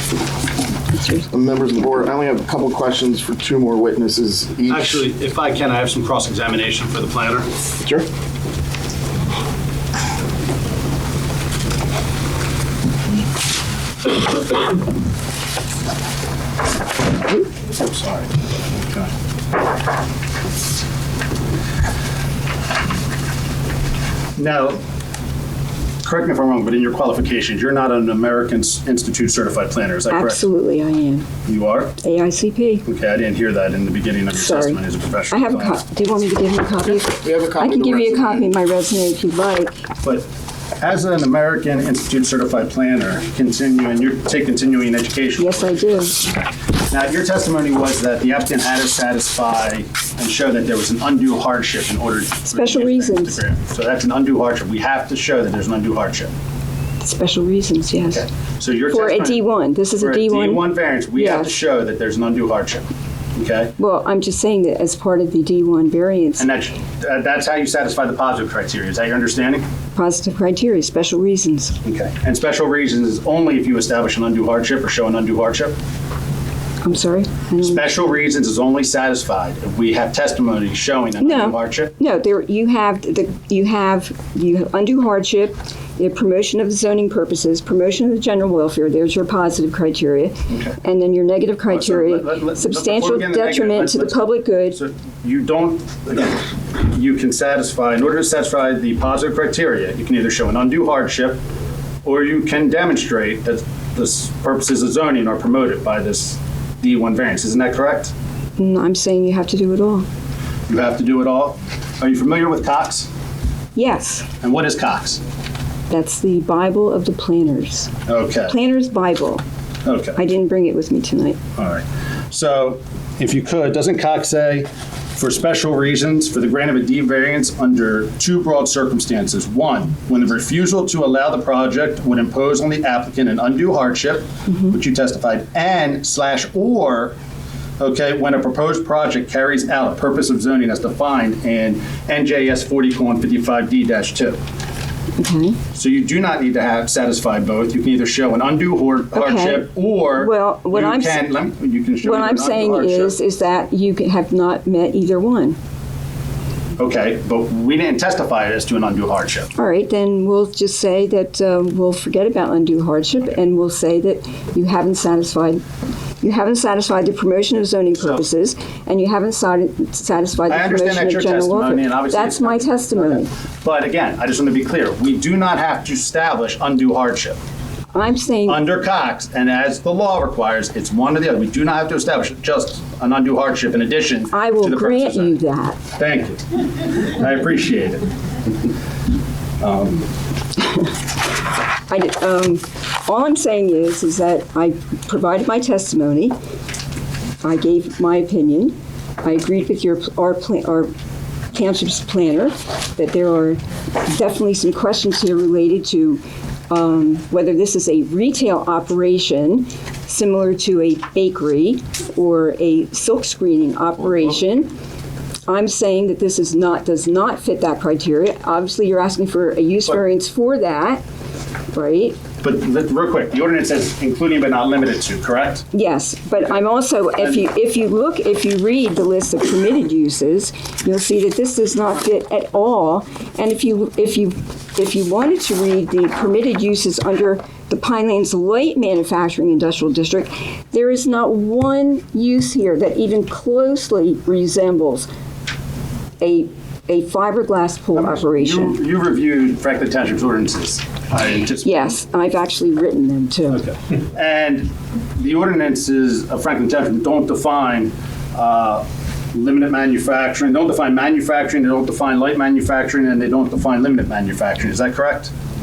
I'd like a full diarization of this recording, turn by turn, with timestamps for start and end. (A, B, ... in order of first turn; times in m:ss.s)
0:00.9-0:01.3 A
0:01.3-0:05.0 B
0:04.7-0:07.5 C
0:07.8-0:08.0 B
0:24.4-0:24.8 C
0:26.0-0:30.4 C
0:30.1-0:31.3 A
0:31.4-0:32.0 C
0:32.0-0:32.8 A
0:32.8-0:35.8 C
0:34.3-0:39.7 A
0:37.0-0:38.5 B
0:40.8-0:46.1 C
0:45.4-0:46.2 A
0:46.9-0:56.3 C
0:52.5-0:53.4 A
0:57.0-0:58.2 A
0:58.1-1:02.8 C
0:58.9-1:01.6 A
1:03.4-1:03.7 C
1:03.8-1:06.5 A
1:06.4-1:09.6 C
1:09.9-1:11.7 A
1:11.8-1:15.7 C
1:16.8-1:17.8 A
1:17.6-1:21.9 C
1:21.2-1:34.8 A
1:30.5-1:30.7 C
1:31.7-1:41.4 C
1:42.0-1:48.1 C
1:48.6-1:50.0 A
1:50.7-1:53.1 C
1:53.7-1:54.3 A
1:54.4-1:55.2 C
1:55.9-1:57.9 A
1:58.1-1:58.5 C
1:58.5-1:59.4 A
1:59.8-2:00.2 C
2:00.2-2:01.4 A
2:01.6-2:17.1 C
2:14.5-2:14.7 A
2:17.8-2:24.4 C
2:25.2-2:25.6 A
2:25.7-2:33.2 C
2:29.1-2:31.3 A
2:32.0-2:35.6 A
2:36.8-2:39.5 C
2:39.6-2:45.6 A
2:46.2-2:53.3 A
2:50.5-2:57.4 C
2:57.9-2:58.6 A
2:58.5-3:05.4 C
3:04.3-3:05.8 A
3:06.0-3:06.4 C
3:07.0-3:08.1 C
3:09.6-3:10.1 C
3:11.9-3:16.3 A
3:17.4-3:20.9 A
3:21.5-3:34.7 A
3:35.5-3:41.0 A
3:41.7-3:42.2 A
3:42.4-3:45.6 C
3:45.7-4:05.1 A
4:06.2-4:08.8 A
4:08.0-4:11.9 C
4:11.6-4:13.6 A
4:13.5-4:25.3 C